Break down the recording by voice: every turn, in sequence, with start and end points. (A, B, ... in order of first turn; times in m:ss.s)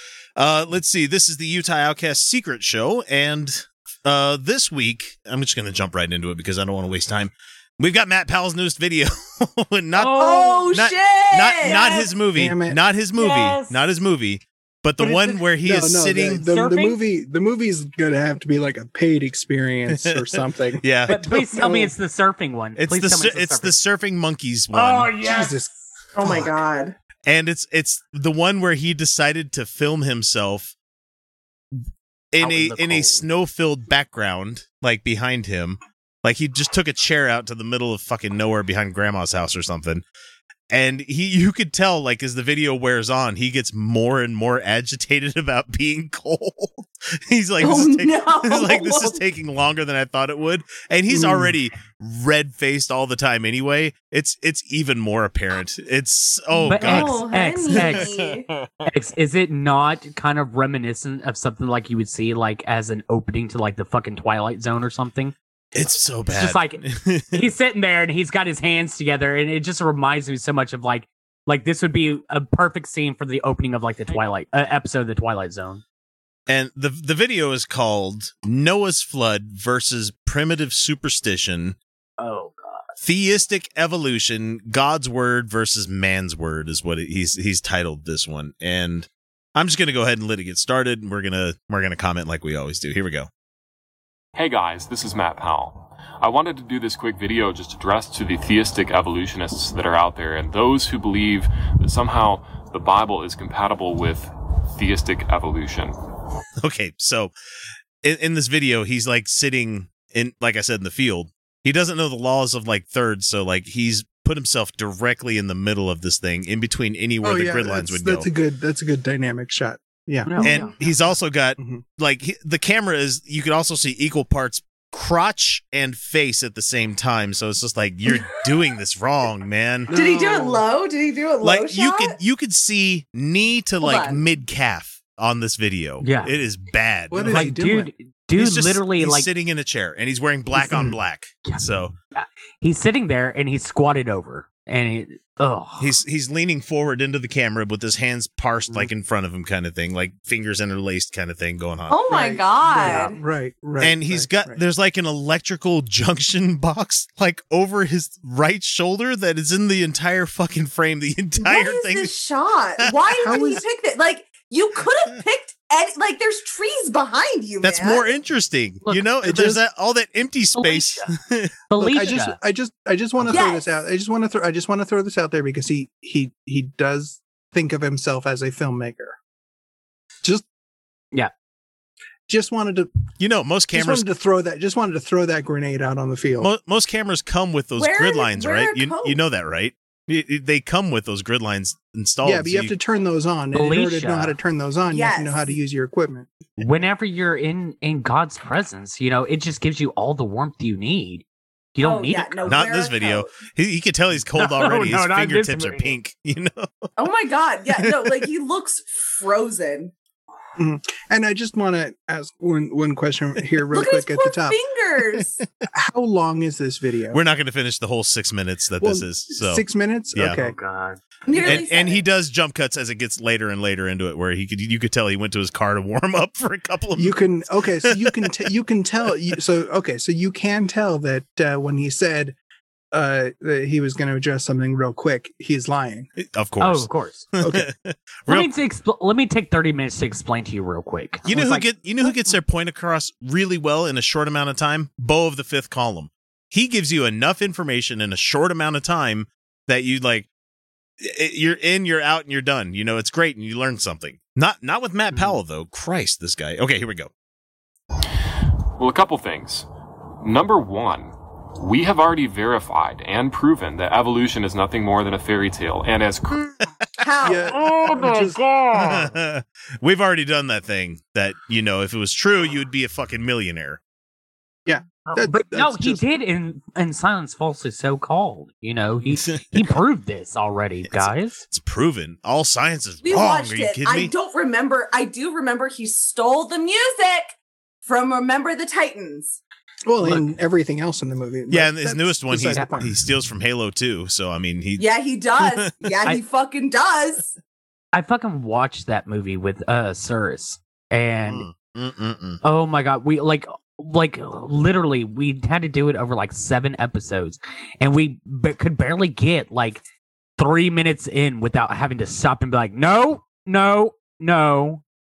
0:00.4-0:16.5 A
0:10.0-0:10.7 B
0:10.2-0:12.1 C
0:12.4-0:12.8 D
0:13.2-0:13.8 B
0:15.0-0:15.5 B
0:15.6-0:20.8 D
0:16.4-0:17.0 B
0:19.9-0:21.8 A
0:21.1-0:23.8 B
0:21.6-0:21.9 D
0:22.8-0:25.2 A
0:24.7-0:25.7 B
0:25.2-0:26.5 D
0:26.2-0:27.0 C
0:27.3-0:30.7 A
0:31.8-0:40.0 A
0:32.4-0:33.2 B
0:40.7-0:58.7 A
0:47.6-0:49.2 C
0:51.1-0:51.6 D
0:56.6-0:58.1 B
0:56.8-0:58.5 C
0:58.8-1:05.4 B
1:05.8-1:07.5 A
1:06.3-1:15.8 B
1:16.5-1:21.8 A
1:22.2-1:23.0 B
1:23.0-1:33.3 A
1:34.4-1:46.0 E
1:46.6-1:47.3 A
1:48.0-1:58.3 A
1:57.2-2:01.0 D
2:00.2-2:00.7 B
2:00.4-2:09.9 A
2:01.6-2:01.8 D
2:09.9-2:10.7 D
2:09.9-2:12.2 C
2:11.4-2:17.5 A
2:13.8-2:14.2 C
2:16.0-2:16.3 B
2:17.1-2:17.9 D
2:17.3-2:19.3 B
2:18.4-2:21.9 A
2:20.6-2:20.9 B
2:21.5-2:26.0 B
2:25.8-2:32.0 A
2:31.9-2:33.2 C
2:32.1-2:34.6 D
2:32.8-2:33.2 B
2:33.8-2:42.1 A
2:41.4-2:48.0 C
2:42.8-2:43.6 A
2:43.2-2:43.6 D
2:47.6-2:51.5 A
2:48.8-2:49.1 B
2:49.2-2:49.6 D
2:50.6-2:51.1 B
2:51.7-2:52.4 B
2:51.8-2:59.2 D
2:53.3-2:53.7 C
3:02.3-3:02.9 D
3:03.2-3:04.1 A
3:03.7-3:06.5 D
3:06.4-3:12.8 A
3:07.8-3:09.2 C
3:12.2-3:16.3 D
3:13.5-3:14.4 B
3:14.9-3:15.6 C
3:16.6-3:22.6 B
3:21.8-3:23.3 C
3:22.4-3:26.9 A
3:24.4-3:26.0 B
3:27.0-3:29.9 C
3:27.8-3:28.2 A
3:30.6-3:34.6 D
3:33.7-3:35.4 C
3:35.7-3:37.2 D
3:37.1-3:40.4 A
3:38.8-3:40.6 D
3:40.4-3:41.5 B
3:41.3-3:42.0 C
3:41.4-3:48.3 A
3:47.0-3:52.4 D
3:52.9-3:56.1 D
3:56.2-3:58.5 A
3:56.6-3:57.3 B
3:57.4-3:57.7 D
3:58.3-4:02.4 B
4:01.3-4:10.3 A
4:11.0-4:17.1 A
4:18.8-4:19.7 E
4:20.2-4:26.6 E
4:27.0-4:27.5 C
4:27.2-4:28.4 D
4:27.6-4:28.6 E
4:28.7-4:33.8 A
4:34.7-4:36.0 D
4:35.1-4:41.4 B
4:39.1-4:39.7 A
4:40.8-4:44.1 A
4:43.0-4:49.4 C
4:49.9-4:52.9 D
4:51.5-4:54.9 A
4:52.4-4:52.7 B
4:54.8-4:57.4 C
4:55.4-4:56.2 A
4:57.9-5:01.5 B
5:01.2-5:02.4 A
5:02.4-5:09.8 B
5:10.4-5:14.8 B